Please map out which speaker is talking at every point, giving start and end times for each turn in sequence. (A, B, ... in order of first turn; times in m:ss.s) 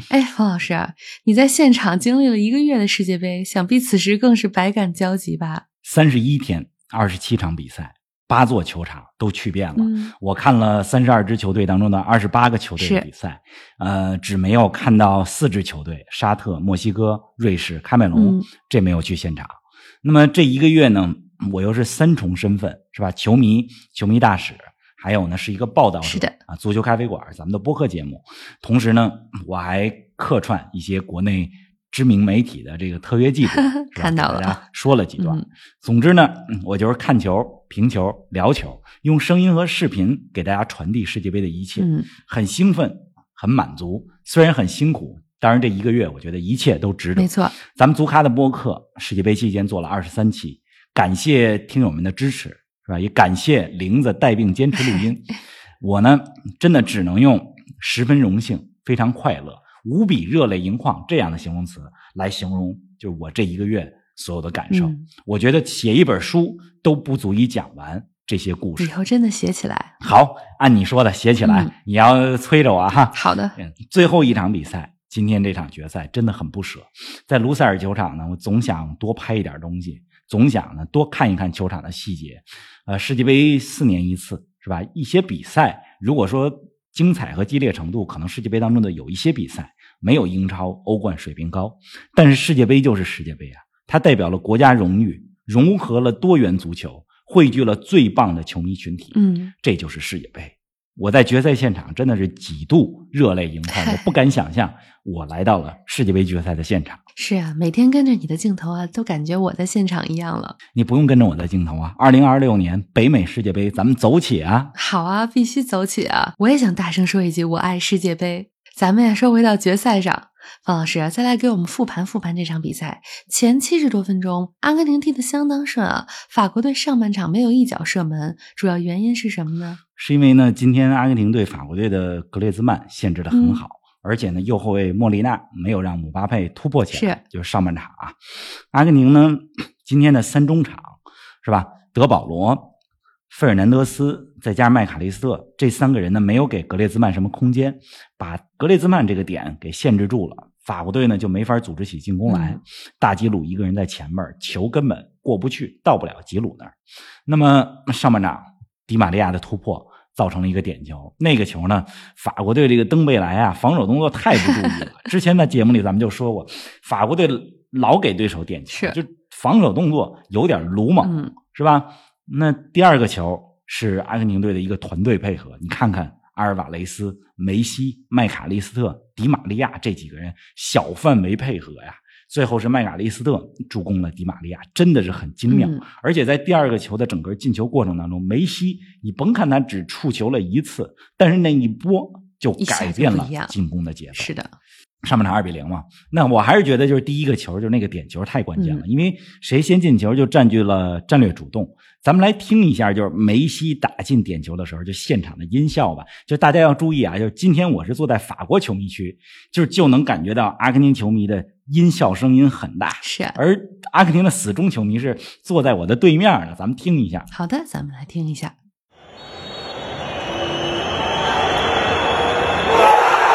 0:00.1-0:05.6 A
0:05.8-1:09.0 B
0:09.8-0:10.1 A
0:12.8-0:13.1 A
0:18.1-0:18.5 A
0:26.0-0:26.4 A
0:33.7-0:34.6 A
0:35.2-0:35.4 A
0:41.8-0:42.1 A
0:47.2-0:47.6 A
1:04.7-1:05.1 A
1:08.8-1:09.9 A
1:10.0-1:47.0 B
1:11.4-1:11.7 A
1:13.1-1:13.6 A
1:39.1-1:39.5 A
1:43.7-1:44.2 A
1:47.2-1:50.6 A
1:50.7-1:54.7 B
1:54.8-2:09.8 A
2:10.0-2:18.2 B
2:13.3-2:13.6 A
2:16.9-2:17.2 A
2:18.7-2:22.7 B
2:23.3-2:36.8 B
2:32.3-2:32.6 A
2:37.3-3:14.3 B
2:44.6-2:44.9 A
2:48.7-2:49.0 A
2:51.0-2:51.4 A
3:05.5-3:05.8 A
3:12.6-3:13.5 A
3:14.2-3:14.5 A
3:15.0-3:37.3 B
3:18.6-3:18.8 A
3:33.0-3:33.4 A
3:37.3-3:38.6 A